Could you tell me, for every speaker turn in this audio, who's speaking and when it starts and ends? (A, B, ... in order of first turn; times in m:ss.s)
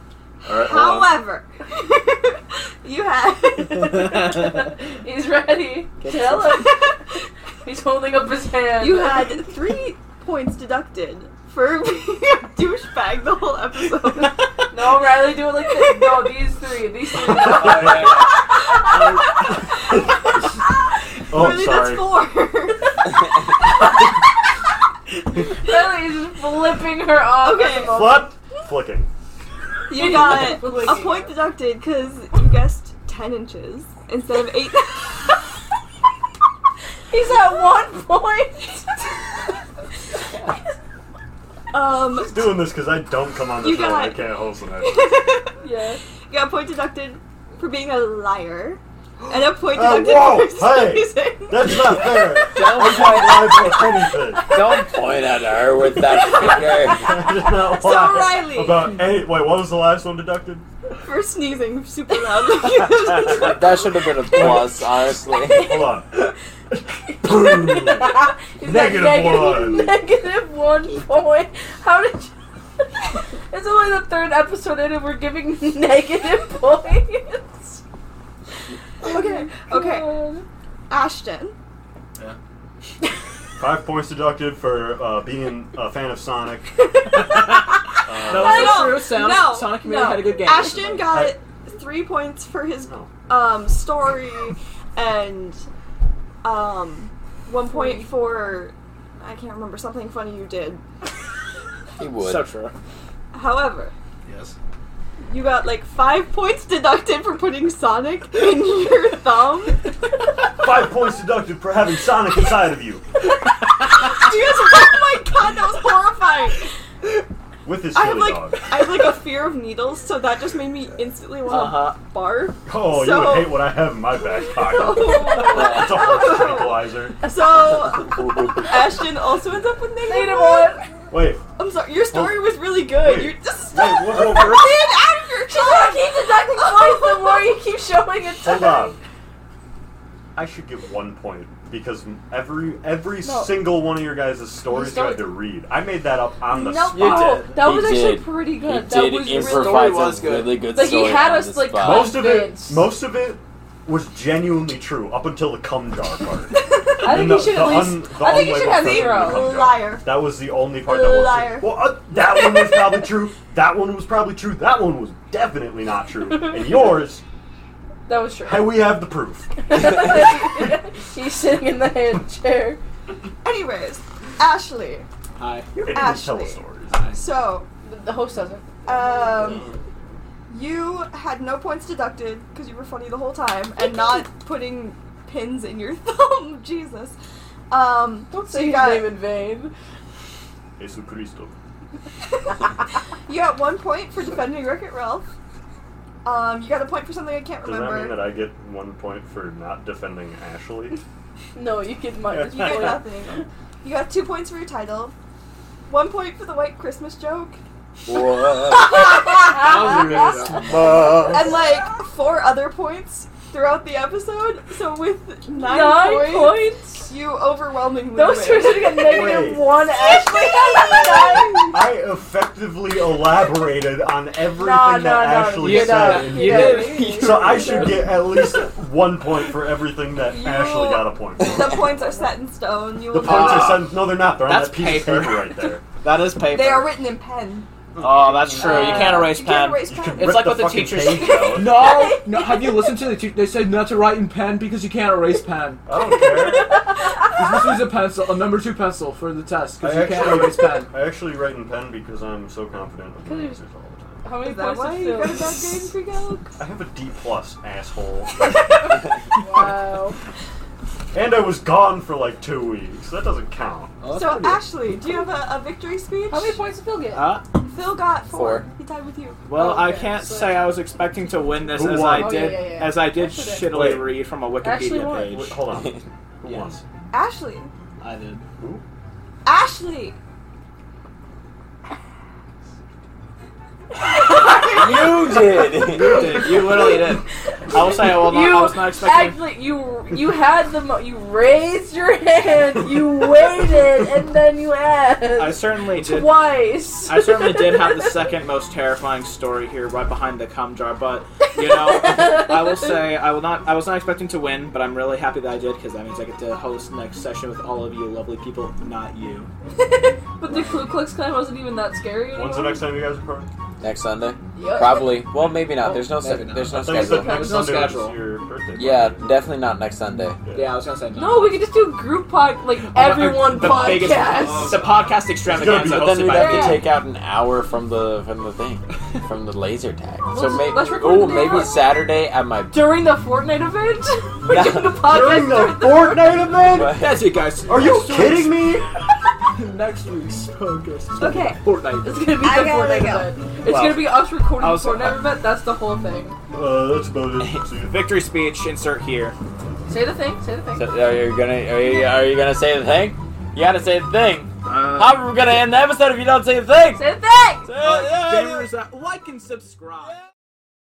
0:00.4-0:01.1 A
0:00.5-0:04.1 B
0:03.7-0:09.5 C
0:06.0-0:06.6 D
0:08.8-0:14.6 B
0:14.7-0:18.9 C
0:15.7-0:16.3 B
0:17.4-0:18.2 A
0:17.4-0:18.3 E
0:21.3-0:22.1 A
0:21.3-0:23.1 B
0:25.6-0:28.3 C
0:27.2-0:28.2 B
0:27.8-0:29.1 A
0:29.9-0:35.3 B
0:29.9-0:31.4 C
0:37.1-0:39.2 C
0:41.7-0:42.8 B
0:42.1-0:45.1 A
0:43.6-0:45.6 B
0:45.6-0:46.0 C
0:46.3-0:52.2 B
0:49.2-0:54.6 A
0:52.5-0:57.2 F
0:56.0-0:58.9 B
0:56.3-1:00.6 A
1:01.0-1:03.8 B
1:02.6-1:05.8 F
1:04.3-1:04.7 A
1:05.5-1:05.9 C
1:05.5-1:10.0 A
1:07.2-1:12.3 C
1:13.0-1:17.8 C
1:19.0-1:20.3 B
1:19.0-1:20.4 C
1:20.9-1:21.5 B
1:23.6-1:27.2 A
1:27.0-1:28.0 C
1:27.1-1:27.6 D
1:28.0-1:29.0 A
1:28.2-1:31.0 D
1:28.3-1:35.6 B
1:30.9-1:31.4 A
1:32.8-1:33.1 A
1:36.4-1:40.8 B
1:37.7-1:38.1 C
1:42.0-1:42.4 F
1:42.2-1:42.7 D
1:43.3-1:43.9 B
1:44.2-1:44.6 E
1:45.2-1:49.9 B
1:50.6-1:53.0 A
1:53.9-1:56.7 B
1:57.6-1:58.7 A
1:57.9-2:03.7 B
2:01.5-2:02.0 D
2:02.6-2:07.2 A
2:04.5-2:10.9 B
2:08.1-2:08.6 A
2:10.0-2:11.1 C
2:11.1-2:11.5 A
2:11.6-2:17.6 B
2:12.1-2:14.7 A
2:15.5-2:19.0 C
2:18.3-2:19.0 A
2:20.4-2:27.4 A
2:23.2-2:23.8 C
2:24.7-2:25.4 C
2:26.5-2:28.4 B
2:26.6-2:30.0 C
2:27.0-2:27.5 E
2:27.4-2:32.3 F
2:29.3-2:30.6 E
2:29.5-2:30.0 B
2:30.6-2:33.0 C
2:31.7-2:47.2 A
2:37.0-2:39.6 C
2:37.1-2:37.4 B
2:38.7-2:42.7 B
2:46.2-2:47.1 C
2:48.1-2:49.0 C
2:48.4-2:50.0 A
2:49.6-2:52.8 C
2:53.4-2:55.0 B
2:55.4-2:55.7 D
2:55.8-2:57.2 A
2:55.9-2:57.7 B
2:56.9-2:57.2 D
2:57.8-2:58.8 C
2:58.8-2:59.6 B
3:00.5-3:07.1 B
3:07.7-3:09.2 B
3:08.3-3:09.7 C
3:10.8-3:11.5 A
3:13.2-3:15.2 B
3:16.2-3:18.3 B
3:17.6-3:21.0 A
3:21.5-3:23.4 C
3:22.3-3:23.0 A
3:22.5-3:25.1 B
3:25.9-3:27.6 B
3:28.2-3:28.8 F
3:29.0-3:30.8 C
3:29.1-3:29.9 B
3:29.5-3:30.8 E
3:30.7-3:31.5 F
3:31.2-3:41.8 B
3:35.5-3:37.1 C
3:38.1-3:41.8 C
3:38.9-3:39.8 A
3:41.7-3:52.0 A
3:44.5-3:47.4 C
3:45.6-3:48.2 D
3:46.8-3:48.0 F
3:50.1-3:53.9 B
3:53.0-3:55.8 A
3:53.2-3:56.9 D
3:56.4-3:57.7 B
3:58.0-3:58.9 A
3:58.0-4:01.6 D
3:58.0-3:58.4 E
3:58.6-4:00.6 B
3:58.6-3:59.3 C
3:59.9-4:01.8 A
4:01.2-4:02.9 C
4:01.5-4:05.8 E
4:01.6-4:01.9 B
4:05.8-4:06.9 A
4:06.2-4:07.2 C
4:06.7-4:10.9 E
4:09.8-4:14.2 A
4:13.2-4:13.6 C
4:14.2-4:15.7 C
4:14.3-4:16.6 B
4:16.6-4:19.0 A
4:18.4-4:20.2 C
4:21.1-4:24.0 A
4:24.0-4:24.6 D
4:24.1-4:26.6 B
4:26.3-4:27.4 C
4:27.1-4:27.5 D
4:27.6-4:29.4 B
4:28.3-4:28.7 F
4:29.4-4:35.6 D
4:29.5-4:30.7 C
4:31.7-4:32.6 A
4:31.8-4:33.8 C
4:33.6-4:34.2 A
4:34.6-4:35.4 C
4:35.2-4:36.8 A
4:35.8-4:36.0 F
4:36.4-4:36.8 D
4:37.1-4:37.7 B
4:38.0-4:38.4 D
4:38.6-4:38.8 A
4:39.4-4:40.2 B
4:44.2-4:46.5 F
4:44.4-4:44.8 B
4:44.4-4:44.9 C
4:45.8-4:49.4 D
4:47.0-4:58.3 C
4:55.3-4:56.5 D
4:57.1-5:09.5 D
5:01.7-5:03.0 C
5:09.8-5:12.9 C
5:10.4-5:10.9 D
5:12.3-5:13.5 A
5:13.8-5:17.5 F
5:14.5-5:15.2 C
5:15.8-5:18.2 D
5:16.8-5:19.2 A
5:18.7-5:20.4 F
5:20.4-5:20.7 A
5:20.5-5:21.6 D
5:21.1-5:24.8 C
5:22.8-5:26.8 D
5:24.1-5:25.2 E
5:25.4-5:26.5 A
5:25.8-5:32.8 F
5:26.3-5:26.9 C
5:30.2-5:32.0 C
5:32.7-5:36.7 C
5:34.4-5:35.0 F
5:34.6-5:37.1 A
5:36.7-5:37.3 F
5:36.8-5:38.8 D
5:37.6-5:38.9 A
5:39.5-5:42.5 D
5:41.2-5:41.6 B
5:42.0-5:46.4 C
5:42.4-5:43.5 B
5:43.6-5:44.1 A
5:44.6-5:45.2 D
5:46.5-5:48.0 A
5:47.8-5:49.4 D
5:49.9-5:50.9 C
5:50.7-5:57.1 F
5:54.6-5:55.2 D
5:56.9-5:57.7 C
5:57.6-5:58.7 F
5:57.8-6:00.1 D